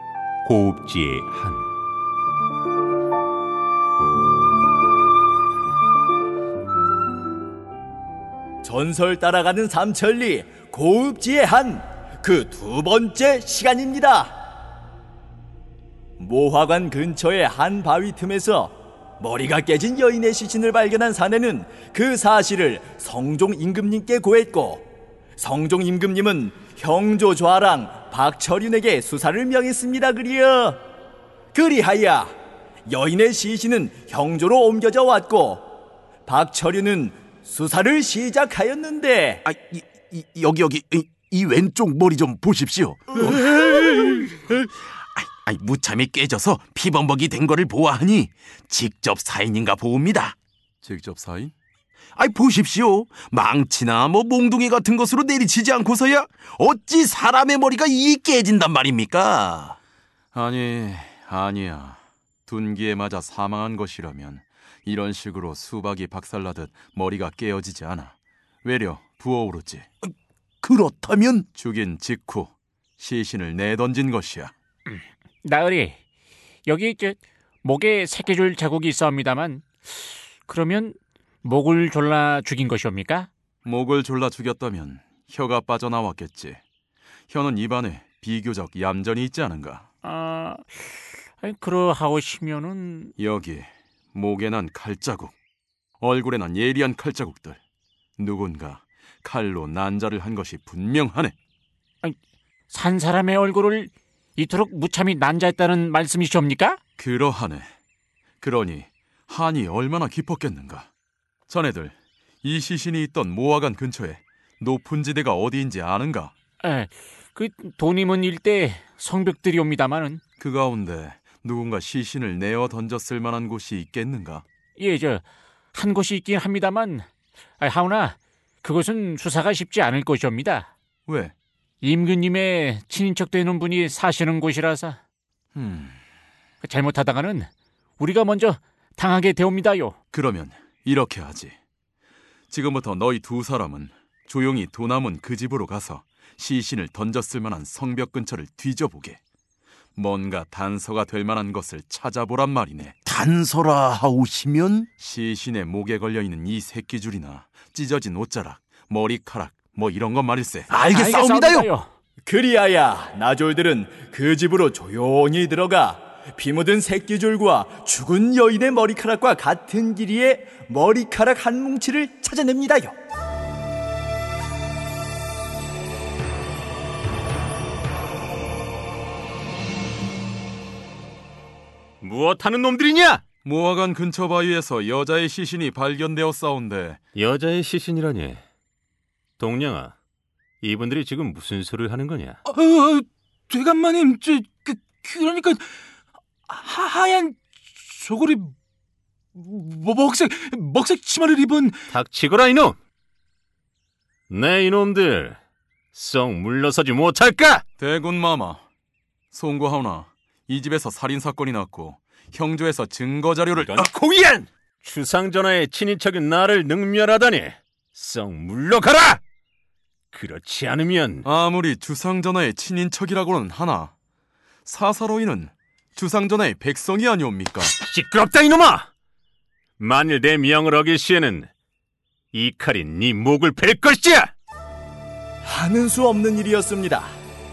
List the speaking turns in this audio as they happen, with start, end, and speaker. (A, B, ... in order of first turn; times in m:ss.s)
0:00.4-0:01.7 A
0:08.6-0:14.3 B
0:16.2-0:24.8 B
0:25.4-0:30.8 B
0:31.5-0:32.3 B
0:32.9-0:35.7 B
0:36.3-0:39.4 B
0:39.4-0:50.4 C
0:50.8-0:51.5 D
0:52.2-0:59.8 C
1:00.3-1:09.9 D
1:10.6-1:11.5 C
1:11.6-1:14.5 D
1:15.4-1:16.0 E
1:16.7-1:23.3 E
1:23.6-1:26.6 D
1:27.3-1:29.9 D
1:30.0-1:33.1 E
1:33.2-1:35.3 D
1:36.0-1:37.6 D
1:38.2-1:41.3 D
1:42.7-1:46.8 E
1:47.0-1:47.7 D
1:48.4-1:50.9 D
1:51.5-1:56.3 D
1:56.6-2:00.2 E
2:00.4-2:04.4 D
2:04.8-2:10.7 E
2:11.1-2:11.3 D
2:11.8-2:15.0 E
2:15.6-2:16.0 D
2:16.6-2:20.0 E
2:20.1-2:21.6 D
2:22.5-2:29.2 D
2:30.0-2:33.0 D
2:33.0-2:34.9 C
2:35.0-2:40.7 D
2:40.7-2:41.7 C
2:40.8-2:41.9 E
2:42.2-2:52.9 B
3:02.0-3:03.2 A
3:03.4-3:07.0 D
3:07.2-3:08.4 A
3:09.4-3:10.0 A
3:10.6-3:12.4 A
3:12.4-3:15.7 F
3:16.5-3:18.6 F
3:19.4-3:21.9 F
3:21.9-3:22.8 A
3:24.3-3:25.4 A
3:25.9-3:27.6 A
3:27.8-3:28.6 D
3:29.3-3:33.9 D
3:33.5-3:39.2 A
3:40.1-3:41.3 A
3:41.2-3:43.9 D
3:44.6-3:47.8 D
3:47.7-3:48.9 A
3:49.8-3:51.5 A
3:52.3-3:54.3 A
3:55.4-3:57.1 B